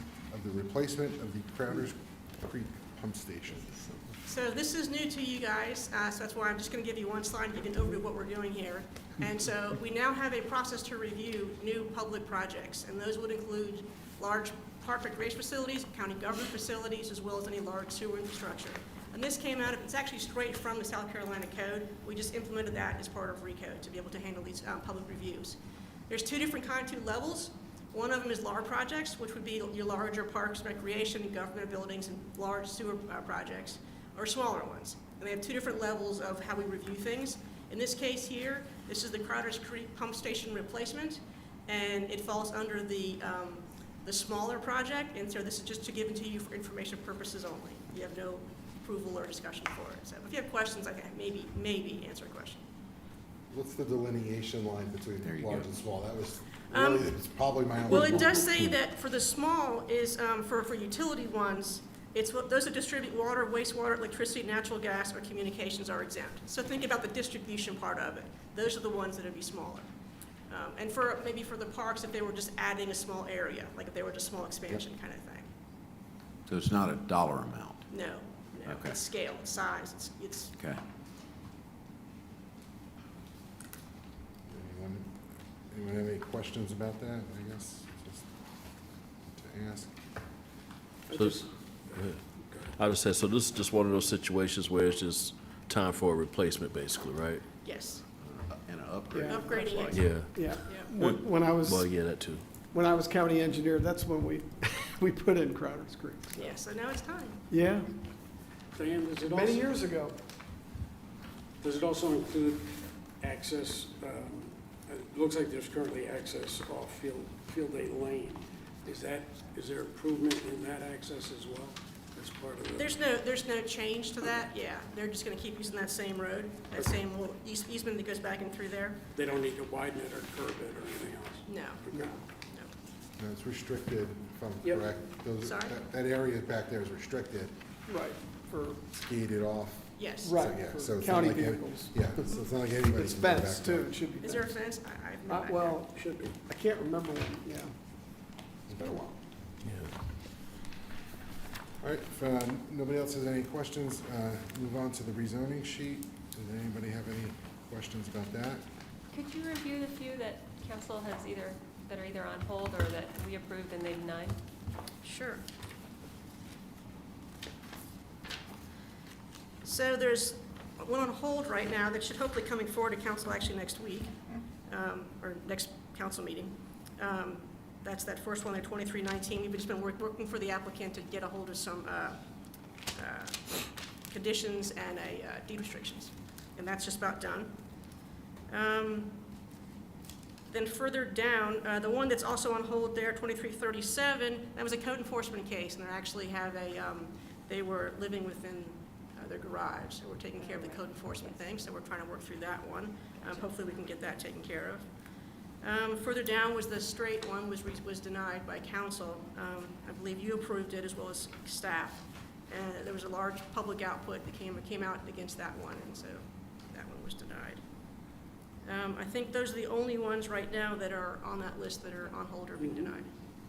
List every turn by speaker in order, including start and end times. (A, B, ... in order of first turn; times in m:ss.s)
0:00.3-0:03.8 A
0:04.2-0:25.6 B
0:26.1-0:52.6 B
0:53.5-0:58.5 A
0:55.2-0:55.7 C
0:56.7-0:57.1 B
0:57.9-1:09.9 B
0:58.0-0:58.6 C
1:10.5-1:15.5 B
1:16.5-1:17.9 C
1:17.9-1:20.5 B
1:18.6-1:19.0 C
1:24.5-1:28.3 A
1:29.3-1:29.9 A
1:31.1-1:32.7 D
1:31.1-1:37.4 E
1:37.6-1:38.0 B
1:38.2-1:40.1 C
1:39.1-1:41.9 F
1:39.3-1:40.0 B
1:39.9-1:42.5 E
1:42.7-1:46.5 F
1:46.4-1:47.4 B
1:47.5-1:47.9 F
1:48.8-1:49.7 D
1:49.3-1:50.2 F
1:51.6-2:03.0 D
2:02.8-2:09.0 B
2:09.1-2:12.1 D
2:11.5-2:12.7 B
2:13.2-2:17.6 A
2:15.4-2:15.8 B
2:17.9-2:18.8 F
2:18.9-2:24.0 A
2:20.0-2:20.4 B
2:20.2-2:22.1 F
2:22.2-2:22.5 B
2:22.8-2:24.7 F
2:24.2-2:25.8 B
2:25.2-2:27.7 F
2:25.7-2:26.4 D
2:28.7-2:29.0 A
2:28.7-2:29.2 F
2:29.6-2:29.9 E
2:31.8-2:38.7 A
2:39.1-2:44.4 G
2:45.0-2:45.4 B
2:49.6-3:02.2 B
3:02.9-3:07.6 B
3:08.5-3:09.2 B
3:10.5-3:24.9 B
3:20.4-3:21.3 G
3:25.6-3:37.6 B
3:38.6-3:43.1 B